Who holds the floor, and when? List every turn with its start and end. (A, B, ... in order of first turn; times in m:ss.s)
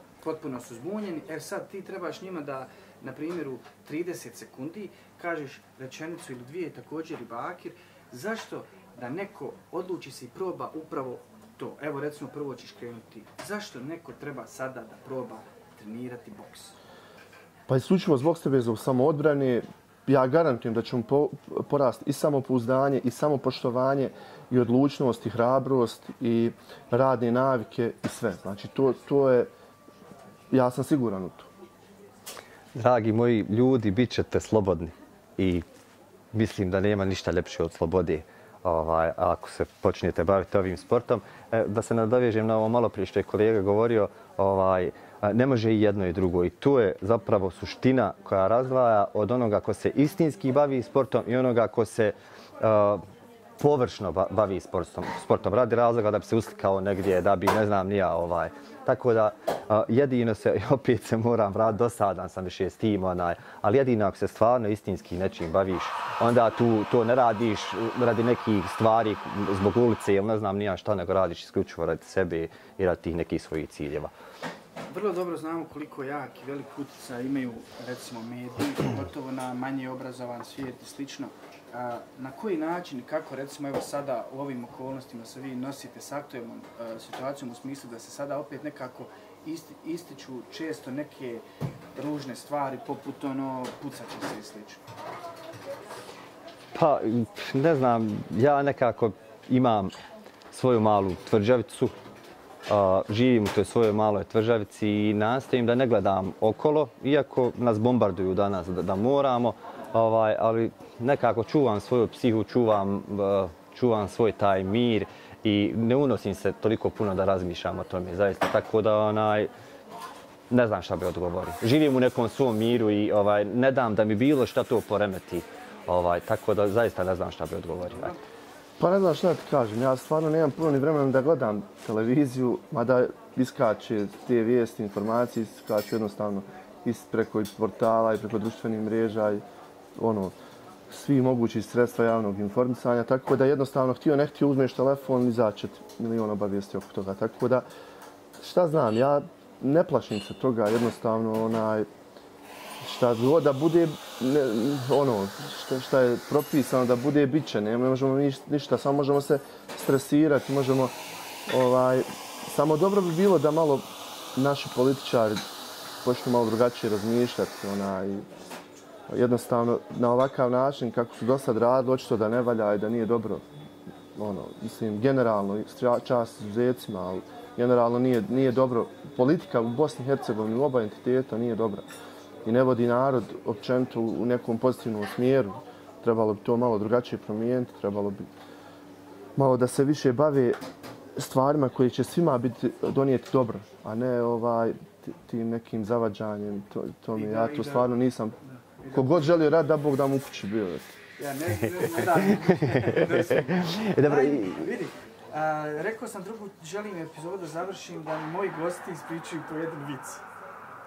0:00.2-0:16.8 A
0:17.7-0:29.5 B
0:30.5-0:31.5 B
0:32.8-0:35.6 C
0:36.3-0:53.0 C
0:53.6-1:14.1 C
1:14.9-1:31.4 A
1:32.0-1:34.8 A
1:36.7-1:39.9 C
1:40.5-1:42.0 C
1:42.7-1:59.5 C
2:00.5-2:08.2 C
2:07.9-2:08.2 A
2:08.8-2:19.4 B
2:20.0-2:20.3 B
2:20.9-2:27.7 B
2:28.4-2:31.9 B
2:32.8-2:40.9 B
2:41.5-2:43.8 B
2:44.4-2:45.4 B
2:46.0-2:48.3 B
2:49.1-2:53.4 B
2:54.2-3:01.9 B
3:02.4-3:08.3 B
3:09.4-3:10.6 B
3:11.2-3:18.4 B
3:17.1-3:18.0 A
3:18.5-3:19.2 A
3:18.9-3:20.9 B
3:21.2-3:30.2 A
3:21.5-3:24.7 C